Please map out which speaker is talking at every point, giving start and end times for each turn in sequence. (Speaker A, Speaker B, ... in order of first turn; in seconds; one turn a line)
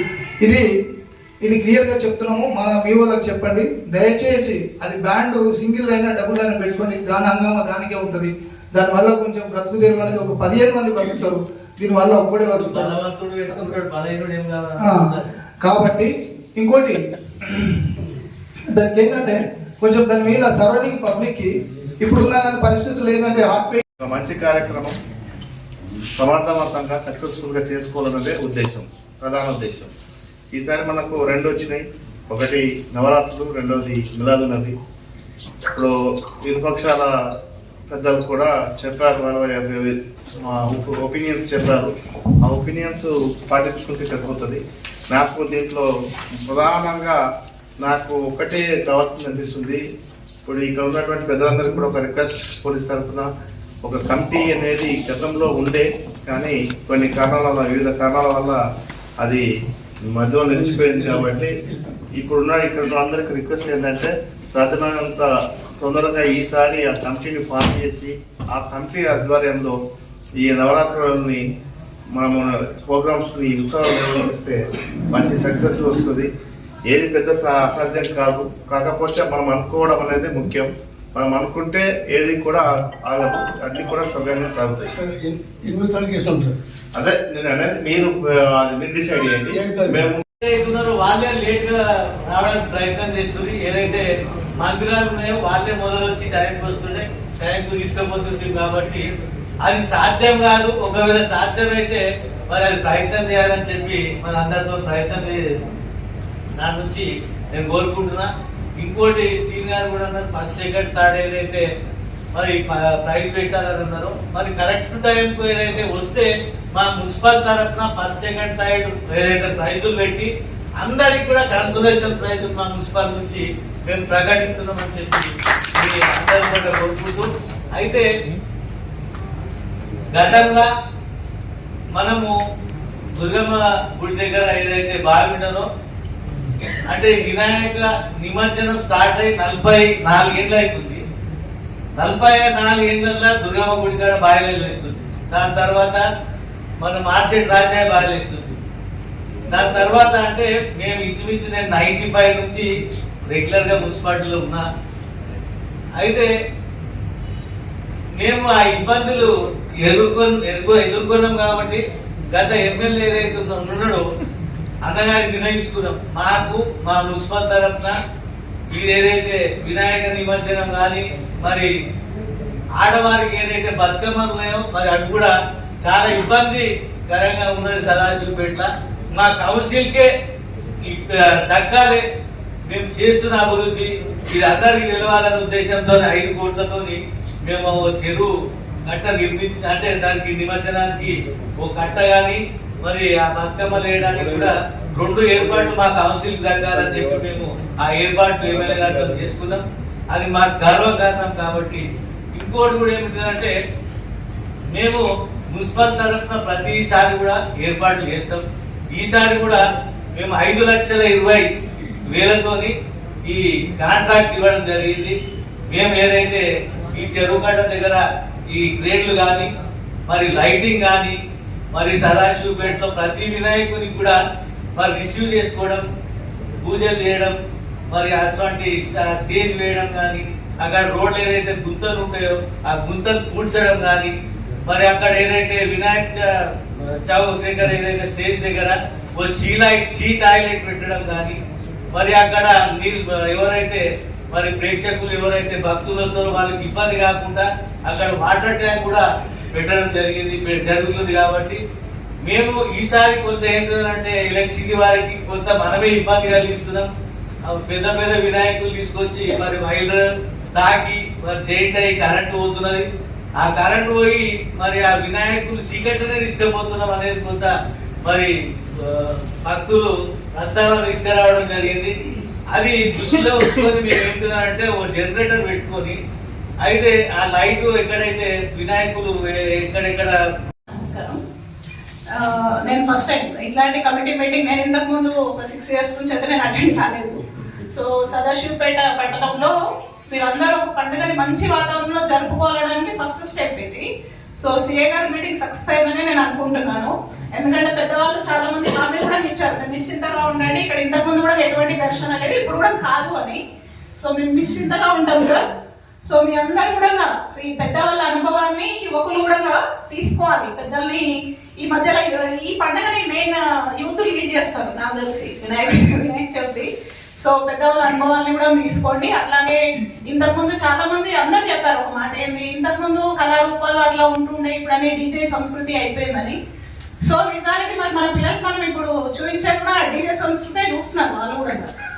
Speaker A: 1.4-12.9
Speaker B: 12.5-15.2
Speaker A: 14.8-15.1
Speaker A: 15.6-17.9
Speaker A: 18.7-23.8
Speaker C: 24.0-24.9
Speaker C: 26.2-29.9
Speaker C: 30.5-34.7
Speaker C: 36.4-37.1
Speaker C: 37.9-41.9
Speaker C: 42.4-45.9
Speaker C: 46.4-47.1
Speaker C: 47.8-49.8
Speaker C: 50.4-53.3
Speaker C: 53.8-58.6
Speaker C: 60.1-61.5
Speaker D: 60.5-62.0
Speaker C: 62.1-69.7
Speaker C: 70.4-71.4
Speaker C: 72.1-76.3
Speaker C: 76.9-84.9
Speaker D: 84.9-86.5
Speaker C: 86.9-90.2
Speaker D: 89.5-90.0
Speaker B: 90.4-94.0
Speaker B: 94.6-99.1
Speaker B: 99.6-105.4
Speaker B: 106.5-111.6
Speaker B: 112.3-128.1
Speaker B: 130.1-130.7
Speaker B: 131.9-132.3
Speaker B: 133.1-135.6
Speaker B: 136.8-141.0
Speaker B: 141.9-146.0
Speaker B: 146.8-148.4
Speaker B: 149.5-152.7
Speaker B: 153.3-154.6
Speaker B: 156.0-156.3
Speaker B: 158.2-159.3
Speaker B: 159.8-164.0
Speaker B: 164.8-168.0
Speaker B: 168.7-171.7
Speaker B: 172.8-180.1
Speaker B: 180.8-182.0
Speaker B: 182.7-188.3
Speaker B: 188.8-203.5
Speaker C: 196.8-197.1
Speaker C: 198.6-199.1
Speaker B: 204.7-209.6
Speaker B: 210.1-211.5
Speaker B: 212.1-212.7
Speaker B: 213.2-215.2
Speaker B: 215.7-219.5
Speaker B: 220.1-221.1
Speaker B: 221.7-224.2
Speaker B: 224.8-225.8
Speaker B: 226.6-227.3
Speaker B: 227.9-234.1
Speaker B: 234.6-241.4
Speaker B: 241.9-251.6
Speaker B: 252.2-256.9
Speaker B: 257.4-260.0
Speaker B: 260.5-262.8
Speaker B: 263.4-267.5
Speaker B: 268.0-271.9
Speaker B: 272.5-276.0
Speaker B: 276.6-280.1
Speaker E: 280.7-281.2
Speaker E: 282.1-289.6
Speaker E: 290.1-293.8
Speaker E: 294.4-303.4
Speaker E: 304.0-305.5
Speaker E: 306.1-311.1
Speaker E: 311.6-316.7
Speaker E: 317.2-326.4
Speaker E: 327.0-331.7